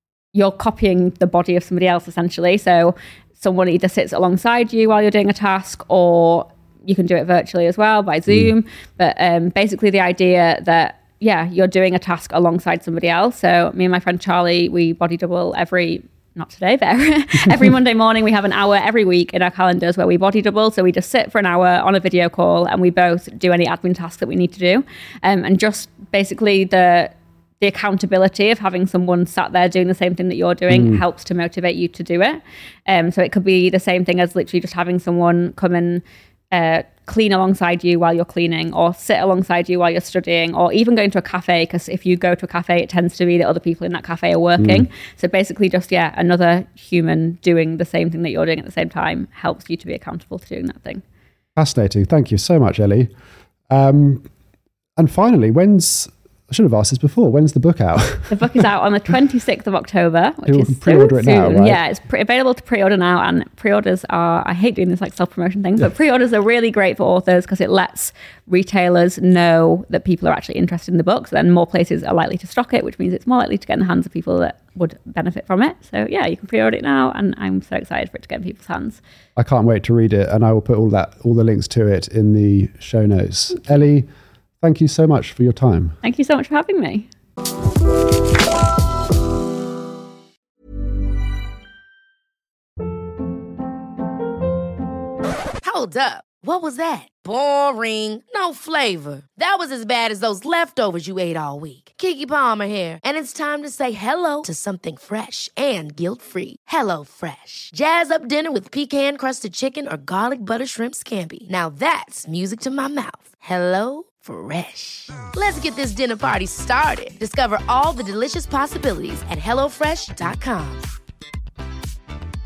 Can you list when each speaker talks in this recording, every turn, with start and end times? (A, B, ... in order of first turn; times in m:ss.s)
0:00.3-0:51.0 A
0:30.7-0:31.0 B
0:44.6-0:44.9 B
0:51.6-0:53.1 B
0:53.7-0:54.3 B
0:55.0-0:58.6 B
0:58.3-1:19.0 A
1:00.5-1:01.8 B
1:19.4-1:24.1 B
1:24.6-1:26.0 B
1:26.0-1:27.1 A
1:35.6-2:00.9 C